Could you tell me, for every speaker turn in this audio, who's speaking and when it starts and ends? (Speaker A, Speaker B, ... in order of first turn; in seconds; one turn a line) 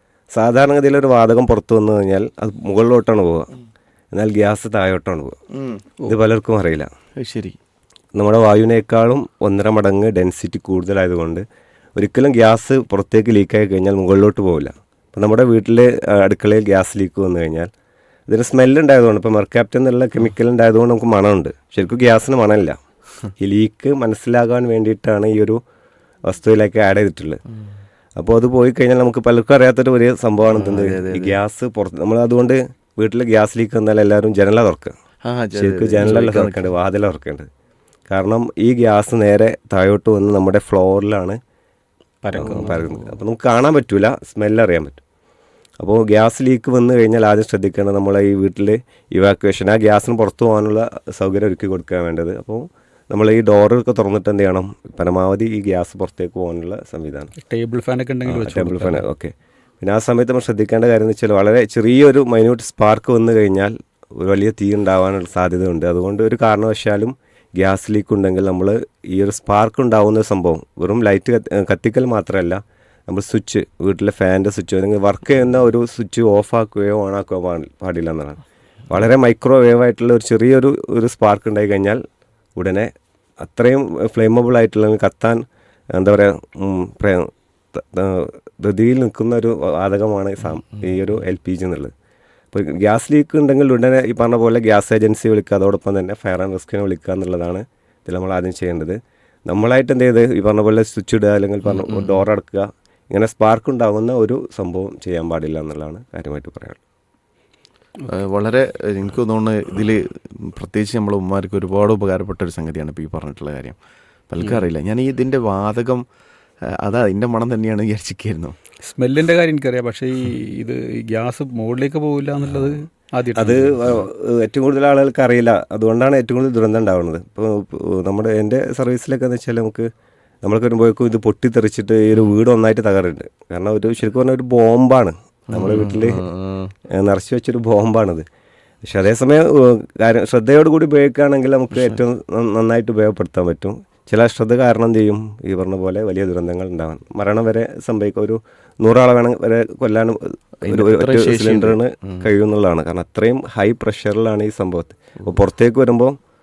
Speaker A: 0.3-3.5
Speaker A: 4.1-5.4
Speaker B: 5.5-5.9
Speaker A: 6.0-6.9
Speaker B: 7.2-7.6
Speaker A: 8.2-11.4
Speaker A: 11.9-17.7
Speaker A: 18.3-22.8
Speaker A: 23.4-25.6
Speaker A: 26.2-27.4
Speaker A: 28.2-34.9
Speaker B: 30.5-31.4
Speaker B: 35.2-36.7
Speaker A: 35.5-37.5
Speaker A: 38.1-41.4
Speaker C: 42.2-43.1
Speaker A: 42.3-45.0
Speaker A: 45.8-57.3
Speaker C: 57.4-59.0
Speaker A: 58.2-82.0
Speaker A: 82.5-85.4
Speaker A: 85.9-91.9
Speaker A: 92.5-106.8
Speaker B: 101.7-102.2
Speaker B: 108.0-113.8
Speaker B: 114.3-116.0
Speaker B: 116.7-118.5
Speaker C: 118.8-124.0
Speaker A: 123.3-129.9
Speaker A: 130.4-136.2
Speaker B: 135.5-136.7
Speaker A: 136.9-138.2
Speaker A: 138.8-156.2
Speaker B: 150.6-152.3